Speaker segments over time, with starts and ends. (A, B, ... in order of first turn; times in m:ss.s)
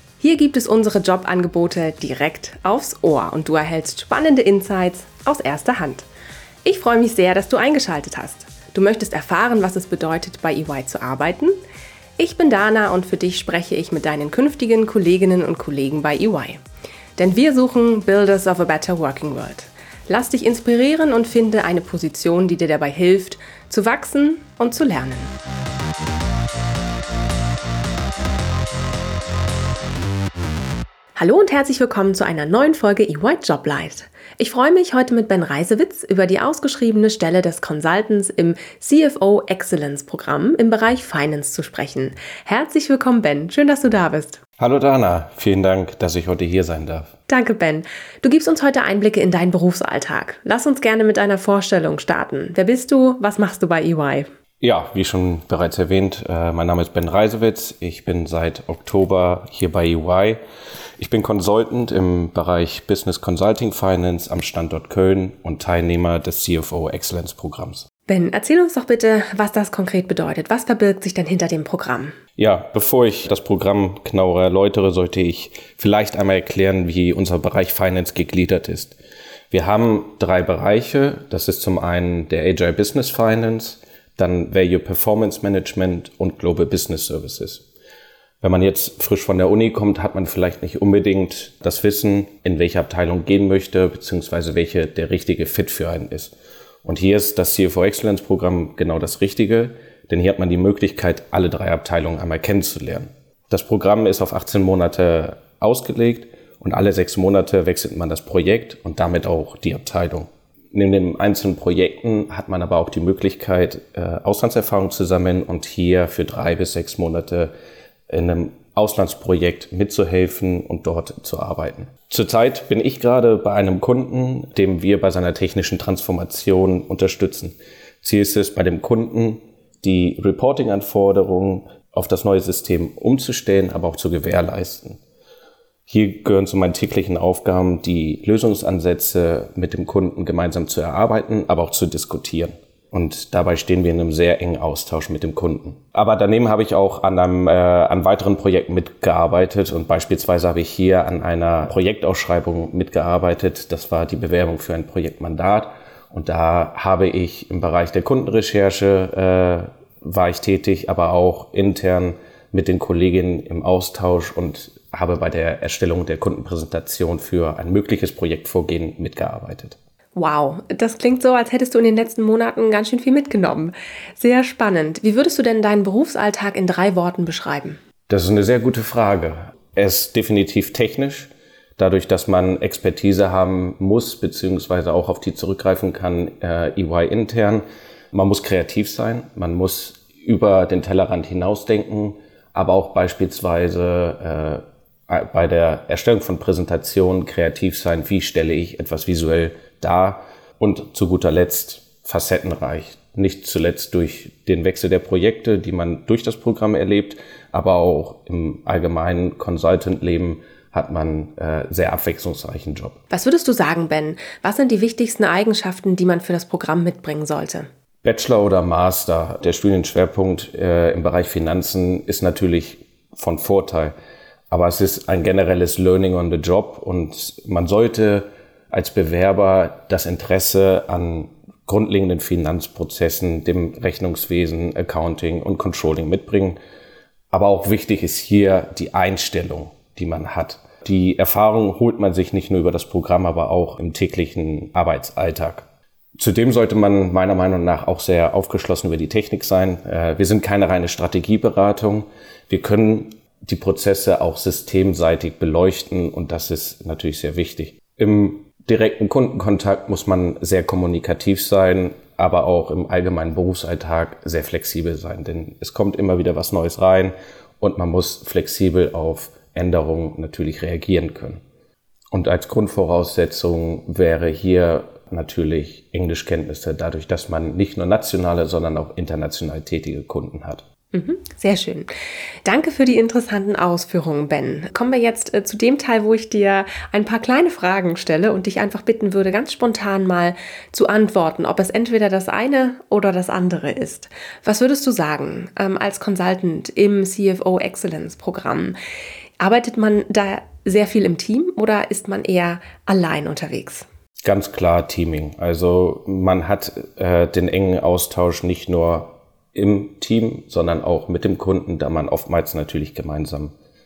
0:00.2-0:06.1 A
0:06.6-0:11.6 A
0:12.2-0:16.6 A
0:17.2-0:25.3 A
0:31.2-0:44.4 A
0:44.6-0:47.1 B
0:47.3-0:54.3 A
0:54.6-1:00.4 B
1:01.0-1:07.9 B
1:08.1-1:12.2 A
1:12.4-1:19.0 B
1:19.5-1:27.6 B
1:28.4-1:36.3 B
1:36.8-1:57.5 B
1:58.1-2:15.0 B
2:15.9-2:49.8 B
2:50.2-2:57.8 A
2:58.1-3:33.0 B
3:33.1-3:37.7 A
3:38.0-3:43.9 B
3:44.5-3:56.6 B
3:57.3-4:05.7 B
4:06.2-4:31.4 B
4:32.1-4:40.6 B
4:40.9-4:41.9 A
4:42.4-4:58.8 A
4:59.4-5:03.9 A
5:04.2-5:13.5 B